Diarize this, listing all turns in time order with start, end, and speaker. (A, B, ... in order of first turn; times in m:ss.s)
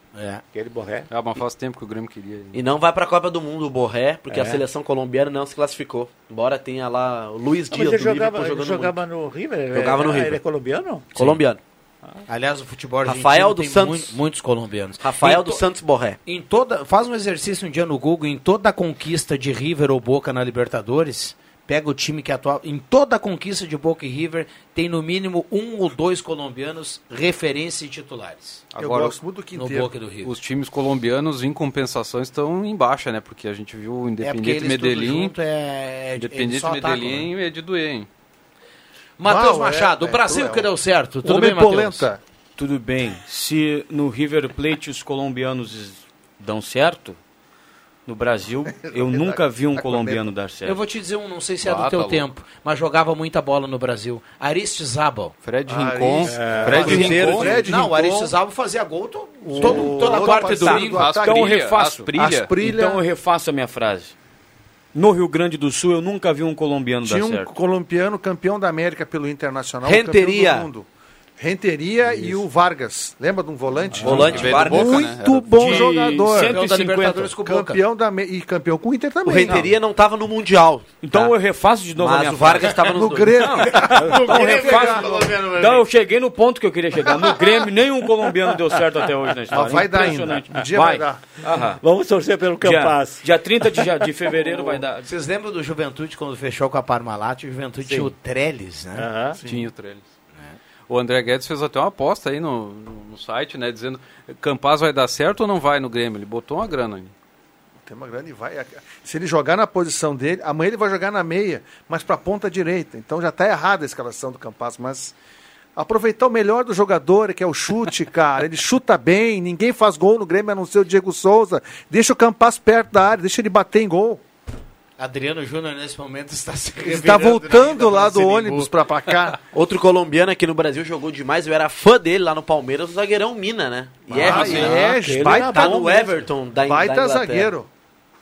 0:00.1-0:00.4 A
0:00.5-0:01.1 B
0:01.1-0:02.6 C
0:02.5-0:09.0 D
0:04.3-0:04.6 B
0:07.7-0:11.2 B
0:09.7-0:10.4 D
0:11.1-0:11.6 D
0:12.3-0:15.6 A
0:13.0-0:14.2 D
0:15.0-0:16.2 D
0:16.2-0:28.6 A
0:28.7-0:29.2 C
0:28.8-0:29.9 E
0:29.5-0:30.3 A
0:30.2-0:35.3 C
0:34.2-0:37.3 A
0:36.2-0:38.1 C
0:39.2-0:42.1 A
0:39.2-0:40.7 E
0:41.2-0:42.2 E
0:42.6-0:47.2 F
0:48.0-0:50.8 F
0:48.6-0:50.3 E
0:50.6-0:55.3 A
0:51.6-0:52.3 C
0:55.4-0:57.6 C
0:55.7-0:58.3 E
0:56.2-0:57.0 B
0:56.8-1:01.1 A
0:56.9-0:57.5 D
0:59.4-1:03.0 E
1:00.6-1:02.6 C
1:00.7-1:04.1 F
1:04.9-1:07.5 F
1:07.0-1:10.9 E
1:09.8-1:10.7 D
1:11.4-1:16.6 E
1:13.9-1:14.4 B
1:14.0-1:15.1 D
1:14.0-1:15.9 C
1:15.5-1:17.3 F
1:16.4-1:17.8 A
1:17.3-1:19.7 E
1:19.2-1:21.3 D
1:21.0-1:31.8 F
1:21.9-1:23.4 D
1:22.8-1:25.3 E
1:23.7-1:25.9 A
1:27.0-1:27.6 E
1:29.5-1:31.4 E
1:31.7-1:33.9 B
1:32.6-1:35.1 F
1:35.0-1:39.1 A
1:37.8-1:38.1 B
1:39.0-1:39.4 B
1:39.4-1:39.7 E
1:39.4-1:40.1 C
1:40.9-1:47.1 C
1:47.8-1:55.1 E
1:55.8-2:04.2 E
2:05.0-2:08.7 A
2:06.8-2:09.4 E
2:09.5-2:17.5 D
2:14.1-2:14.8 C
2:14.1-2:17.7 E
2:14.3-2:16.2 B